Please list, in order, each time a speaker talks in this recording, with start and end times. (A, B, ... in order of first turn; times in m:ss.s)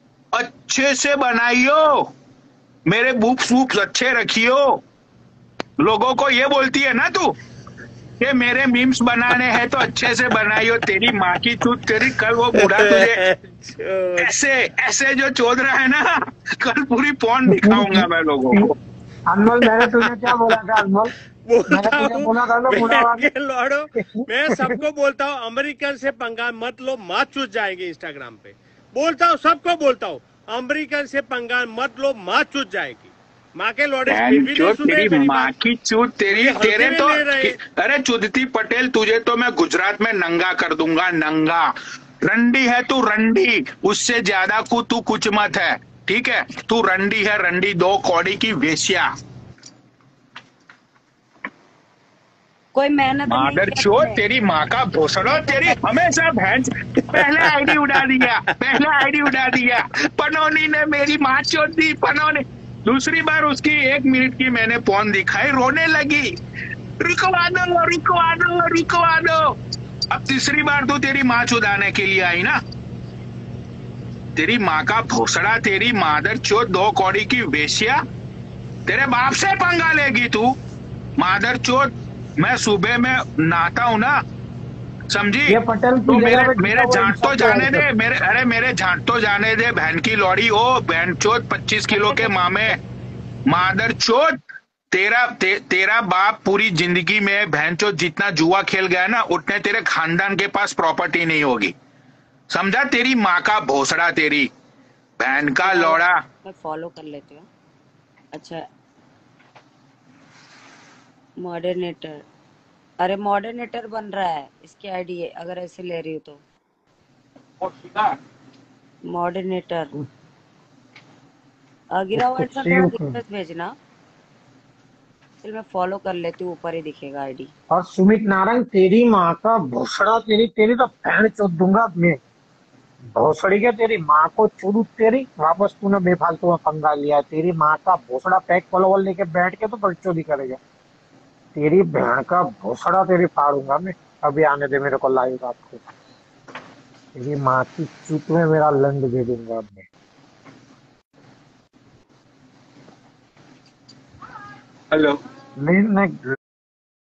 0:00.3-0:02.1 A
0:02.9-0:04.8 A
0:05.8-0:07.4 A
0:08.2-0:13.2 A
0:12.6-0:14.3 B
0:14.2-0:18.8 A
0:17.5-0:18.7 C
0:19.3-0:21.1 C
0:19.6-0:20.6 B
0:21.5-0:35.5 B
0:21.7-0:23.3 C
0:24.0-0:24.8 C
0:34.1-0:41.7 A
0:36.3-0:37.6 B
0:42.2-0:49.1 A
0:52.7-0:54.2 D
0:53.3-1:06.3 A
0:55.5-0:55.8 D
0:57.1-0:58.3 B
1:07.0-1:09.6 A
1:10.1-1:12.6 A
1:14.4-1:18.0 A
1:18.9-1:20.6 A
1:21.2-1:24.2 A
1:25.1-1:32.8 A
1:25.5-1:27.9 C
1:31.9-1:32.6 D
1:33.5-1:34.4 A
1:34.9-1:41.7 A
1:42.5-1:44.5 A
1:45.2-1:46.2 A
1:45.6-1:47.5 D
1:48.3-1:48.6 D
1:51.4-1:52.2 D
1:53.0-1:56.4 D
1:59.1-2:00.0 D
2:01.9-2:03.7 D
2:02.1-2:03.2 C
2:05.4-2:07.5 D
2:07.7-2:12.2 C
2:13.2-2:20.6 C
2:21.6-2:25.8 C
2:27.2-2:29.9 C
2:34.9-2:35.2 A
2:35.6-2:36.2 C